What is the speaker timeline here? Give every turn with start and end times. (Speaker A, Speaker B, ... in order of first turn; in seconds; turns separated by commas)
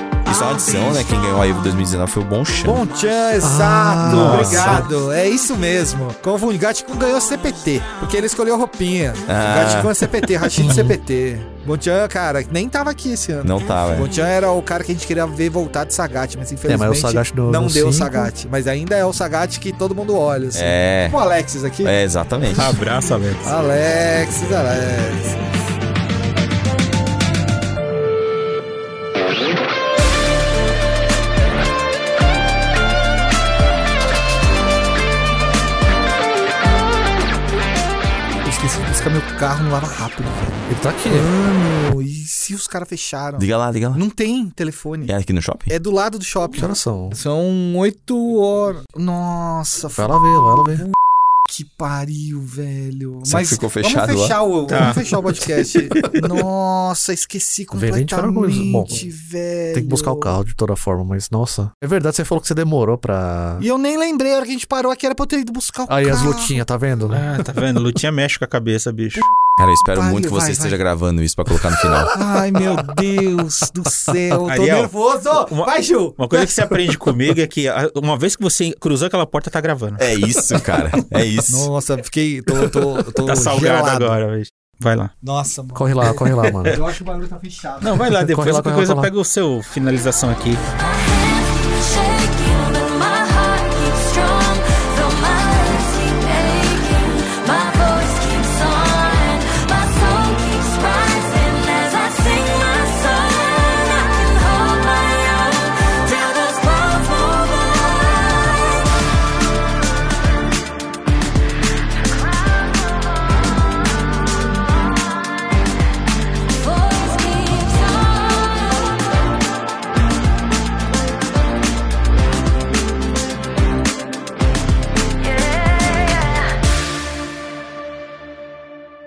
Speaker A: 0.2-2.8, Speaker B: 2.6-22.0, Speaker C: 3.4-4.8, Speaker D: 4.0-4.9, Speaker A: 9.3-10.3, Speaker C: 10.6-11.0, Speaker A: 13.4-14.1, Speaker C: 16.7-18.3, Speaker A: 20.5-21.2, Speaker A: 21.8-22.8, Speaker D: 22.5-23.5, Speaker B: 23.4-25.6, Speaker B: 38.4-45.1, Speaker C: 40.7-41.3, Speaker A: 43.4-44.0, Speaker A: 45.0-45.7, Speaker B: 45.7-50.9, Speaker C: 46.6-47.2, Speaker C: 50.0-50.8, Speaker B: 51.5-60.4, Speaker A: 53.2-54.4, Speaker D: 54.7-56.2, Speaker C: 57.7-59.0, Speaker C: 59.7-63.6, Speaker B: 63.6-66.6, Speaker C: 65.9-67.2, Speaker D: 67.1-69.3, Speaker A: 69.6-72.2, Speaker B: 69.9-70.8, Speaker B: 72.1-77.1, Speaker D: 74.5-80.1, Speaker A: 80.0-81.7, Speaker B: 81.5-84.2, Speaker D: 83.2-85.1, Speaker B: 85.2-88.1, Speaker C: 85.7-86.8, Speaker D: 87.8-90.6, Speaker C: 88.2-89.1, Speaker E: 90.9-109.0, Speaker E: 112.0-113.9, Speaker E: 115.0-115.5, Speaker E: 116.5-119.0, Speaker E: 125.2-126.5